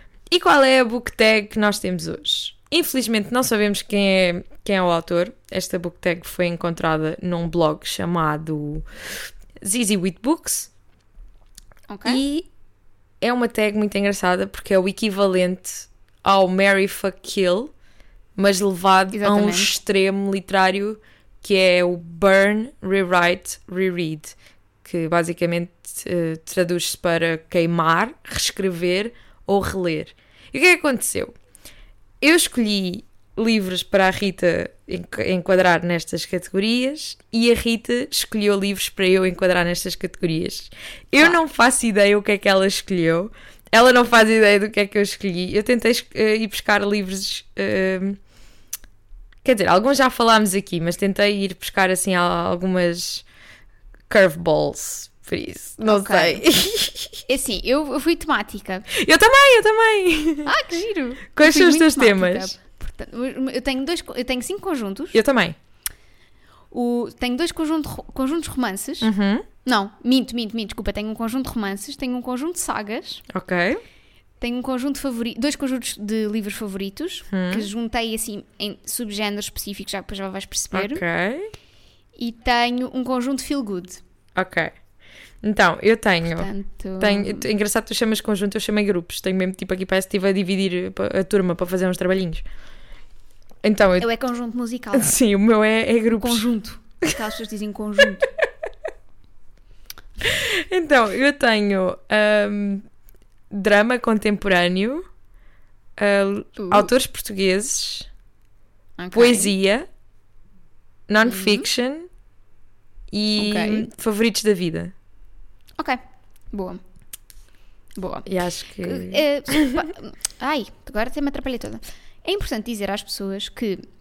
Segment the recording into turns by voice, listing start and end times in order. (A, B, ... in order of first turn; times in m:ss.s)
0:00.3-0:08.9 A
0:09.6-0:10.7 A
0:11.9-0:12.2 B
0:12.0-0:12.5 A
0:13.2-0:17.7 A
0:18.4-0:31.4 A
0:19.1-0:19.7 B
0:32.2-0:48.2 A
0:49.4-0:53.2 A
0:54.1-0:57.3 A
0:55.8-0:56.4 B
0:57.3-0:58.9 B
0:58.9-1:00.5 A
1:00.4-1:05.2 B
1:01.4-1:02.6 A
1:05.1-1:05.6 A
1:06.7-1:09.1 B
1:09.0-1:09.5 A
1:09.6-1:13.3 B
1:13.3-1:13.8 A
1:14.4-1:21.0 B
1:17.3-1:17.7 A
1:20.7-1:21.5 A
1:22.2-1:24.0 B
1:24.4-1:24.8 A
1:25.4-1:32.4 A
1:26.4-1:27.5 B
1:33.6-1:34.1 A
1:34.0-1:35.2 B
1:35.0-1:36.5 A
1:36.2-1:38.3 B
1:40.2-1:42.8 A
1:43.5-1:45.0 A
1:46.0-1:48.1 A
1:46.6-1:46.9 B
1:49.0-1:49.6 B
1:49.1-1:49.9 A
1:51.1-1:52.1 A
1:51.2-1:51.7 B
1:53.1-1:54.9 A
1:53.4-1:53.9 B
1:56.5-1:56.8 B
1:58.0-2:03.8 B
1:58.3-1:59.8 A